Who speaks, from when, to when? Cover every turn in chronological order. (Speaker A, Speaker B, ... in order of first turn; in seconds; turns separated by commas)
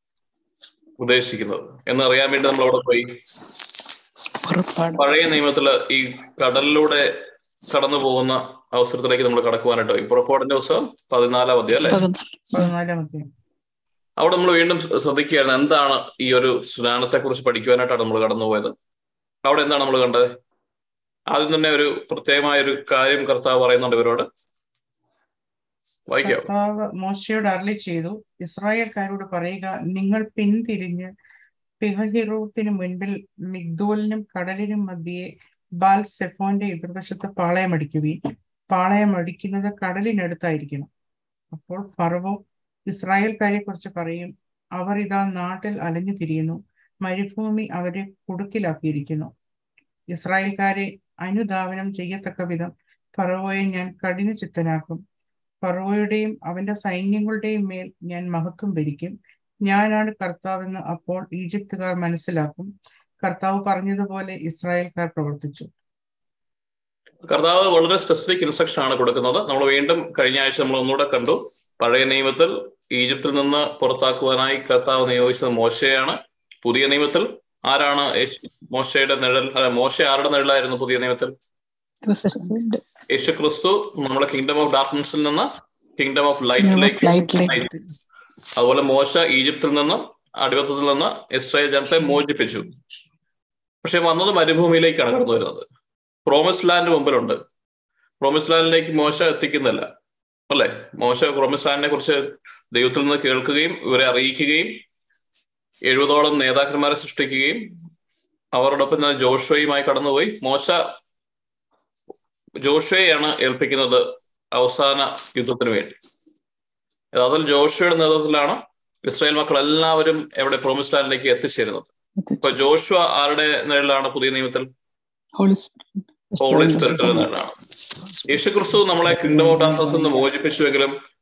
Speaker A: 1.0-3.2, Speaker B: 4.4-5.0, Speaker A: 5.0-7.1, Speaker A: 7.7-12.0, Speaker B: 11.8-12.7, Speaker C: 12.5-13.3, Speaker A: 14.2-18.7, Speaker A: 19.4-20.3, Speaker A: 21.3-24.3, Speaker A: 26.1-26.5, Speaker C: 26.2-31.1, Speaker C: 31.8-35.3, Speaker C: 35.8-38.2, Speaker C: 38.7-40.9, Speaker C: 41.5-49.3, Speaker C: 50.1-55.0, Speaker C: 55.6-62.7, Speaker C: 63.2-65.7, Speaker A: 67.2-81.3, Speaker B: 82.0-82.8, Speaker A: 83.1-87.7, Speaker B: 86.6-87.7, Speaker A: 88.5-92.7, Speaker A: 93.8-95.7, Speaker A: 96.2-97.4, Speaker A: 98.2-99.9, Speaker A: 100.5-104.8, Speaker A: 105.8-107.7, Speaker A: 108.5-110.9, Speaker A: 112.6-116.0, Speaker A: 117.1-121.9, Speaker B: 122.2-122.6, Speaker A: 122.4-124.7, Speaker B: 125.4-127.3, Speaker A: 126.4-127.6, Speaker A: 128.2-130.9, Speaker B: 129.3-130.1